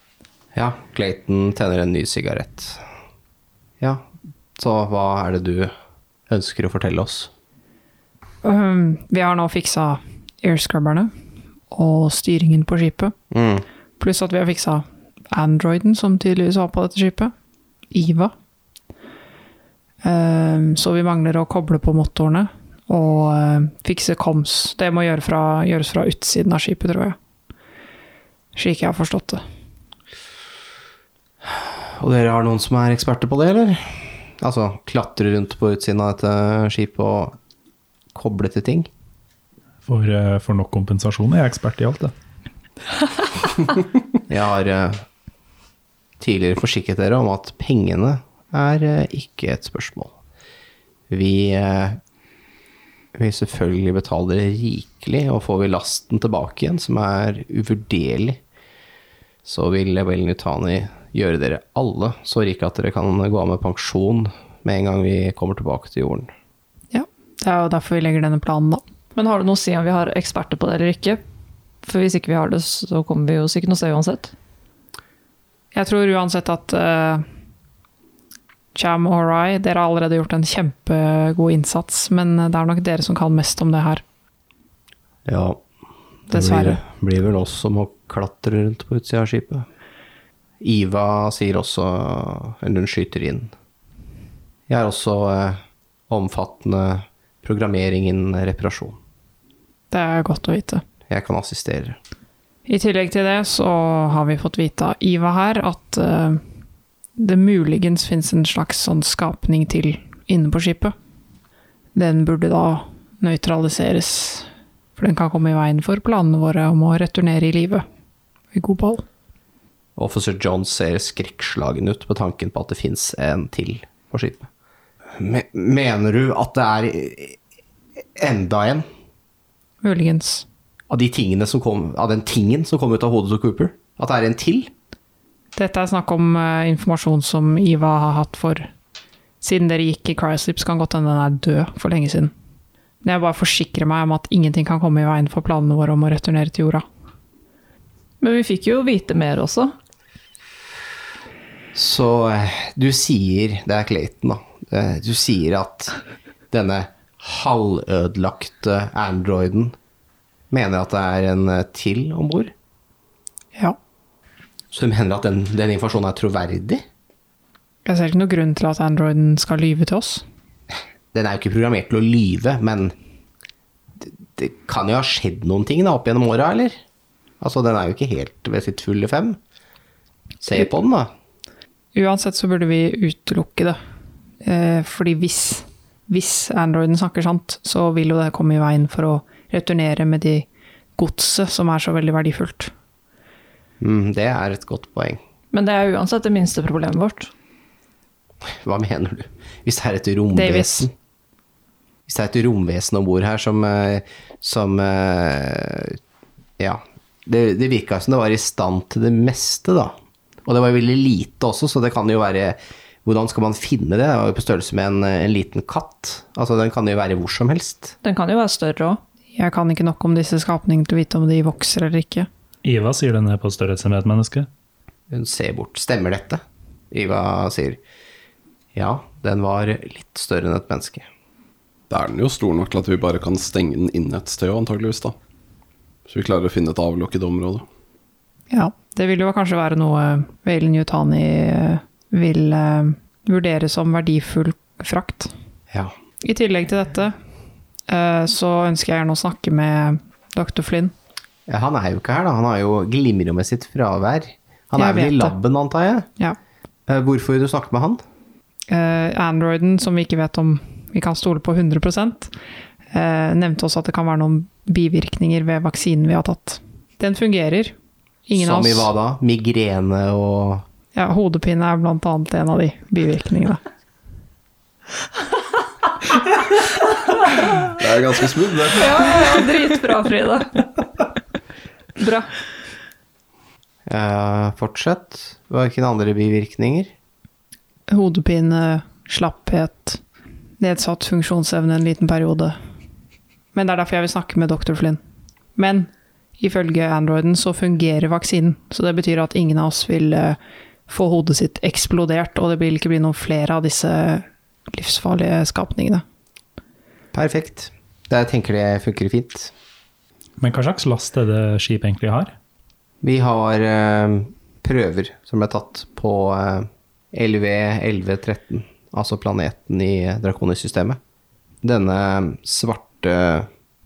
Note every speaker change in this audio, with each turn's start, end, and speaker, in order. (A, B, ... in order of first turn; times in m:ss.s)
0:00.6-0:02.8 A
0:03.8-0:05.7 A
0:06.3-0:07.3 A
0:08.4-0:11.1 B
0:11.7-0:13.2 B
0:13.3-0:13.6 A
0:14.0-0:17.3 B
0:17.9-0:18.3 B
0:20.0-0:27.2 B
0:28.6-0:29.4 B
0:31.5-0:37.4 A
0:38.1-0:38.9 A
0:39.8-0:42.1 C
0:44.3-0:45.0 A
0:46.2-0:50.1 A
0:51.1-0:52.0 A
0:53.2-0:58.4 A
0:59.4-1:06.3 A
1:06.9-1:08.8 B
1:09.2-1:11.2 D
1:11.8-1:14.3 D
1:15.7-1:17.2 B
1:18.8-1:24.0 B
1:25.3-1:25.6 A
1:26.3-1:26.8 B
1:26.3-1:29.7 A
1:30.6-1:33.5 A
1:34.7-1:39.0 A
1:39.9-1:40.8 B
1:41.1-1:42.0 A
1:42.7-1:46.4 B
1:47.2-1:50.9 B
1:52.0-1:57.8 B
1:58.5-1:59.0 B
2:00.0-2:04.5 A
2:05.2-2:07.4 A
2:08.2-2:08.8 A
2:09.8-2:10.4 B
2:10.9-2:14.7 A
2:15.6-2:18.7 B
2:19.4-2:22.3 B
2:23.0-2:26.8 B
2:28.2-2:29.7 D
2:31.7-2:36.0 A
2:36.5-2:39.8 A
2:40.5-2:42.5 A
2:44.7-2:46.8 A
2:47.8-2:50.2 B
2:51.1-2:52.9 A
2:54.0-2:56.8 A
2:57.4-2:59.4 A
3:00.4-3:01.1 A
3:01.9-3:03.8 B
3:04.4-3:10.5 B
3:11.0-3:12.7 B
3:13.8-3:15.2 A
3:15.5-3:17.3 D
3:18.5-3:20.9 A
3:20.3-3:20.9 B
3:22.1-3:26.0 A
3:26.6-3:29.9 A
3:30.4-3:38.0 A
3:38.0-3:39.0 D
3:39.4-3:42.3 B
3:42.6-3:44.5 C
3:45.1-3:47.8 A
3:48.8-3:51.1 A
3:51.9-3:55.2 E
3:56.1-3:57.7 E
3:58.5-4:05.3 B
4:06.2-4:07.2 B
4:07.9-4:10.9 B
4:11.5-4:16.1 A
4:14.8-4:15.3 B
4:16.9-4:18.0 A
4:18.7-4:22.3 B
4:22.9-4:27.7 B
4:28.3-4:28.9 B
4:28.3-4:30.6 A
4:31.0-4:33.6 B
4:37.7-4:39.3 E
4:38.8-4:40.6 D
4:42.0-4:42.3 D
4:43.9-4:46.9 A
4:47.9-4:50.0 B
4:50.6-4:52.6 B
4:53.5-4:55.0 B
4:55.6-5:00.4 B
5:00.9-5:06.0 B
5:07.1-5:09.5 A
5:10.4-5:12.3 C
5:13.0-5:21.0 A
5:21.6-5:23.5 A